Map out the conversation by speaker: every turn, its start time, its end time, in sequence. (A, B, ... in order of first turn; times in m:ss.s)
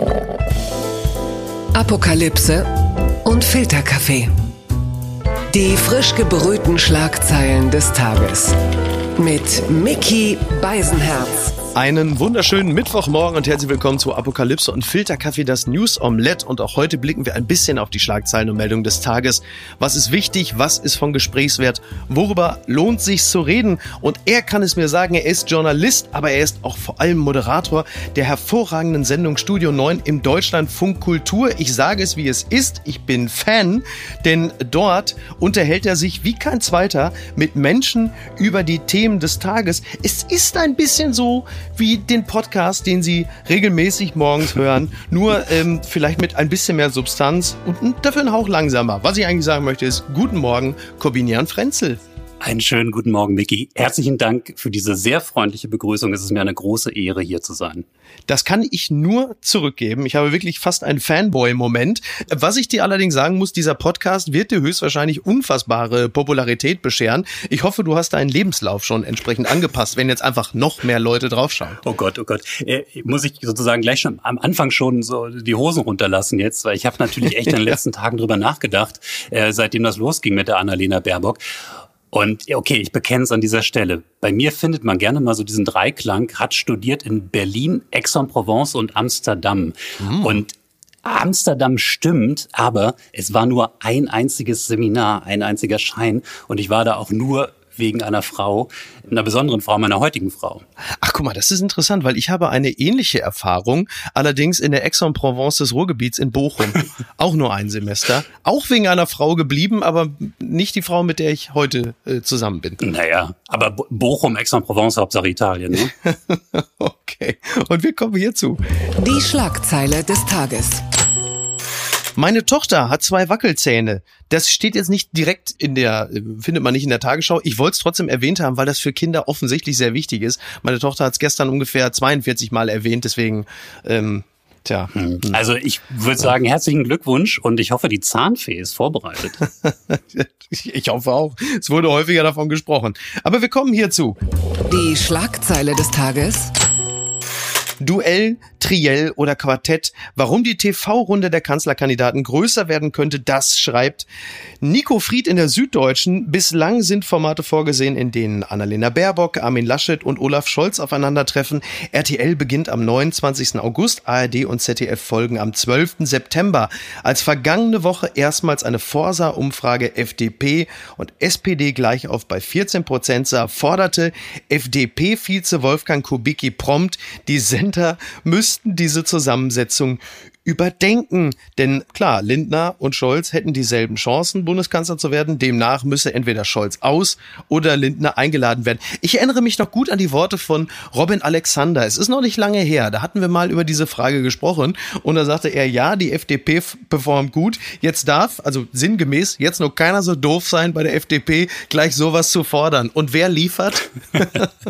0:01.7-0:02.7 A
0:03.2-0:04.3 A
0:05.5-0:08.5 A
0:09.2-0:11.5 A
0:11.8-0:52.0 B
0:52.4-0:57.8 C
0:58.3-1:11.8 B
1:11.8-1:21.4 C
1:22.1-1:30.5 C
1:30.0-1:30.4 B
1:31.0-1:40.6 C
1:41.0-1:52.8 B
1:52.8-1:55.9 C
1:56.0-1:58.6 B
1:59.0-2:00.8 A
2:02.2-2:15.4 B
2:15.0-2:19.4 C
2:19.6-2:24.2 B
2:24.7-2:26.5 A
2:27.8-2:34.1 B
2:34.6-3:24.5 B